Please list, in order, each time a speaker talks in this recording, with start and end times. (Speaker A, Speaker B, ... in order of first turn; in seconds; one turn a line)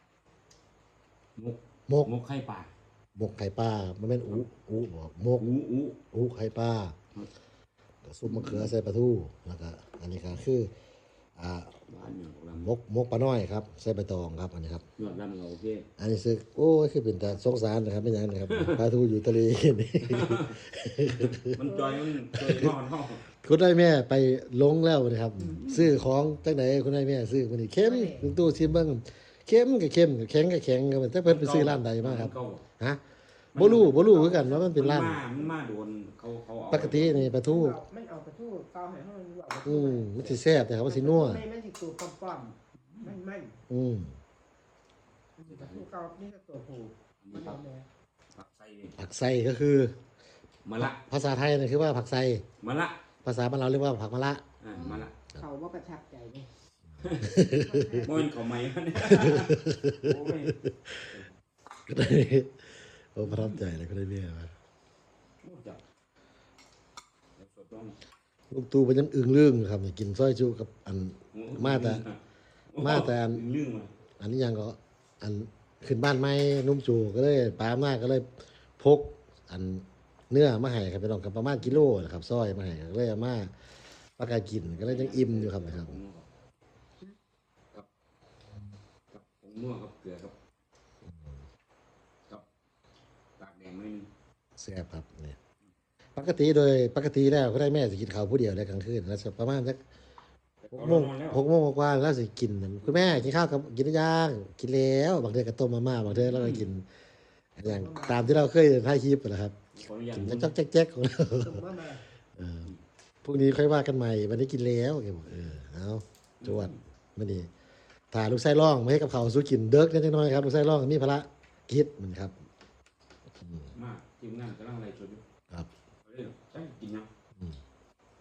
Speaker A: 1.4-2.7
Speaker B: 1.9-2.1
Speaker B: 3.2-5.5
Speaker A: 5.4-6.0
Speaker B: 6.1-7.0
Speaker B: 8.1-10.7
Speaker A: 8.3-8.7
Speaker B: 11.4-11.8
Speaker A: 11.9-12.7
Speaker B: 12.6-14.9
Speaker A: 15.0-15.9
Speaker B: 16.0-21.6
Speaker A: 18.5-18.8
Speaker A: 20.1-20.6
Speaker A: 21.2-23.2
Speaker C: 21.6-22.0
Speaker B: 22.3-22.7
Speaker B: 23.4-33.0
Speaker A: 25.4-26.0
Speaker C: 27.8-28.3
Speaker A: 31.2-32.6
Speaker A: 33.5-37.3
Speaker B: 33.5-35.3
Speaker C: 34.2-34.7
Speaker B: 36.7-37.8
Speaker C: 37.3-43.6
Speaker B: 39.7-41.4
Speaker A: 42.8-43.2
Speaker B: 43.7-44.1
Speaker C: 45.4-47.9
Speaker A: 45.5-45.8
Speaker A: 47.2-47.6
Speaker A: 48.4-49.0
Speaker B: 49.0-50.0
Speaker A: 50.6-51.0
Speaker B: 50.8-52.5
Speaker A: 52.6-53.0
Speaker B: 53.2-55.0
Speaker A: 54.6-55.1
Speaker C: 54.7-56.5
Speaker A: 57.0-57.4
Speaker B: 57.2-58.0
Speaker C: 57.4-58.3
Speaker A: 58.0-61.3
Speaker B: 59.0-61.1
Speaker B: 61.9-64.5
Speaker A: 63.2-63.6
Speaker A: 65.4-65.8
Speaker A: 67.4-68.0
Speaker B: 68.5-72.0
Speaker A: 71.3-72.2
Speaker A: 72.7-73.9
Speaker B: 72.8-73.4
Speaker B: 74.2-83.5
Speaker B: 84.2-86.0
Speaker A: 84.7-86.3
Speaker A: 89.1-90.3
Speaker B: 91.1-91.4
Speaker A: 93.4-94.1
Speaker B: 94.6-95.4
Speaker B: 96.2-99.8
Speaker A: 100.6-101.5
Speaker B: 100.7-106.9
Speaker A: 102.8-103.4
Speaker A: 106.1-106.7
Speaker B: 107.6-109.6
Speaker C: 107.7-108.5
Speaker A: 109.7-110.6
Speaker B: 110.1-111.6
Speaker C: 111.4-112.0
Speaker B: 112.4-112.7
Speaker B: 113.2-117.5
Speaker A: 116.4-116.8
Speaker B: 118.1-122.3
Speaker B: 123.4-123.7
Speaker A: 123.8-125.2
Speaker A: 126.0-127.1